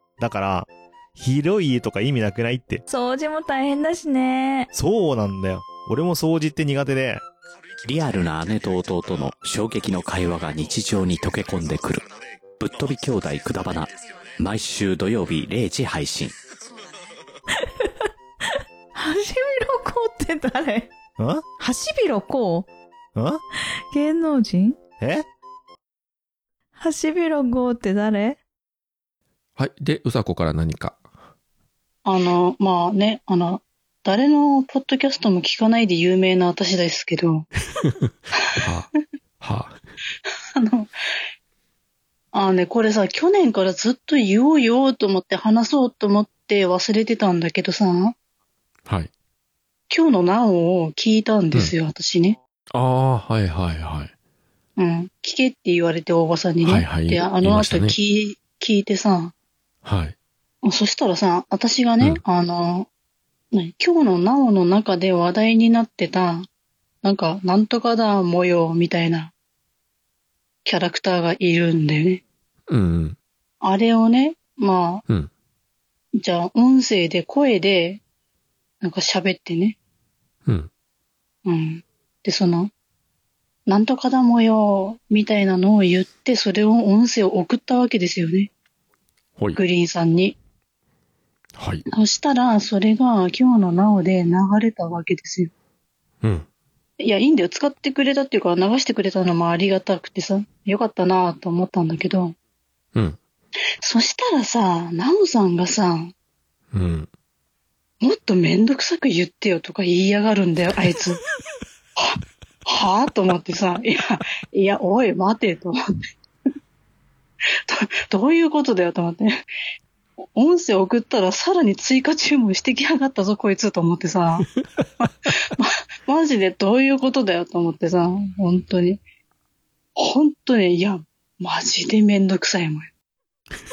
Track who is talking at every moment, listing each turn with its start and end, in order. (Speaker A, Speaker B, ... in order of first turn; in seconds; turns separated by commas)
Speaker A: 0.2-2.8, Speaker B: 2.9-4.7, Speaker A: 4.7-7.2, Speaker C: 7.8-16.4, Speaker B: 18.9-20.9, Speaker A: 21.2-21.4, Speaker B: 21.6-22.7, Speaker A: 23.1-23.4, Speaker B: 23.9-24.8, Speaker A: 25.0-25.2, Speaker B: 26.8-28.4, Speaker D: 29.6-31.0, Speaker E: 32.0-37.5, Speaker D: 37.8-38.9, Speaker D: 39.4-39.8, Speaker E: 40.5-40.9, Speaker E: 42.3-48.1, Speaker E: 49.9-52.4, Speaker D: 52.7-54.1, Speaker E: 54.8-59.3, Speaker D: 56.6-58.0, Speaker D: 59.8-60.1, Speaker E: 60.6-62.9, Speaker E: 63.5-66.5, Speaker E: 67.0-69.3, Speaker E: 70.6-72.2, Speaker D: 72.7-73.2, Speaker E: 73.6-75.0, Speaker E: 76.2-78.0, Speaker E: 78.8-79.8, Speaker E: 81.5-82.7, Speaker E: 83.7-88.5, Speaker E: 89.5-90.4, Speaker D: 91.6-91.8, Speaker E: 91.9-95.5, Speaker D: 96.2-96.5, Speaker E: 97.0-102.3, Speaker E: 103.8-106.1, Speaker D: 106.7-107.1, Speaker E: 108.0-111.2, Speaker E: 112.0-115.8, Speaker E: 117.7-119.4, Speaker E: 120.3-124.5, Speaker E: 125.0-129.0, Speaker E: 129.9-132.9